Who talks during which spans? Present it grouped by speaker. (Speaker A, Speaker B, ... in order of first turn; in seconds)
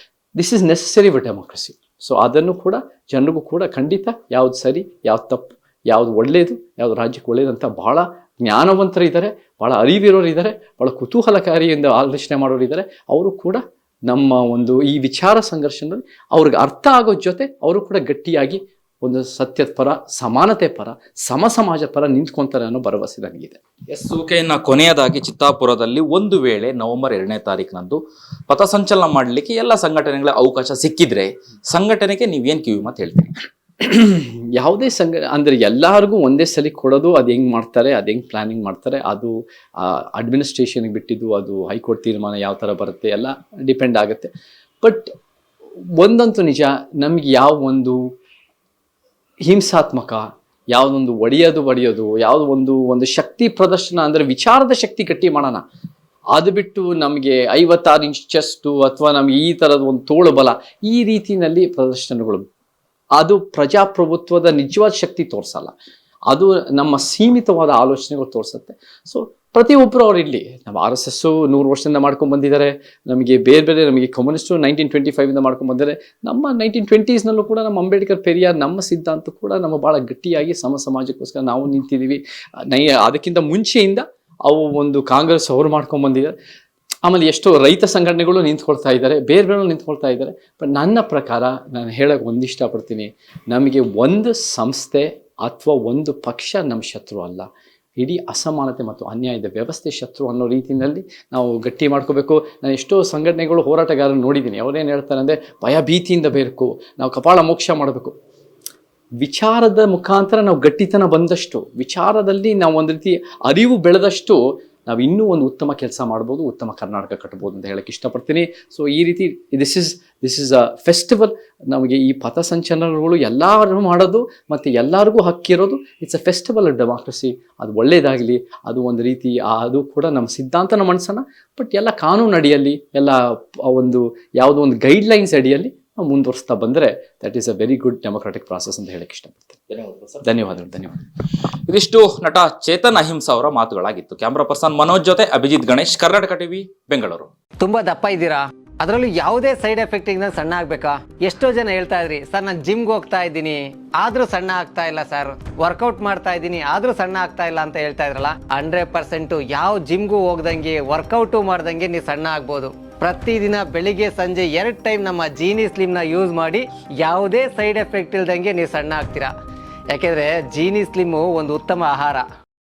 Speaker A: 0.4-23.6, 33.8-44.3, 44.8-45.1, 45.9-48.0, 49.4-55.6, 56.3-62.5, 63.1-65.7, 66.3-86.3, 87.0-108.1, 109.2-139.6, 140.2-141.1
Speaker B: 23.9-33.4, 139.7-140.2, 141.7-147.3
Speaker C: 147.6-169.3, 169.9-172.3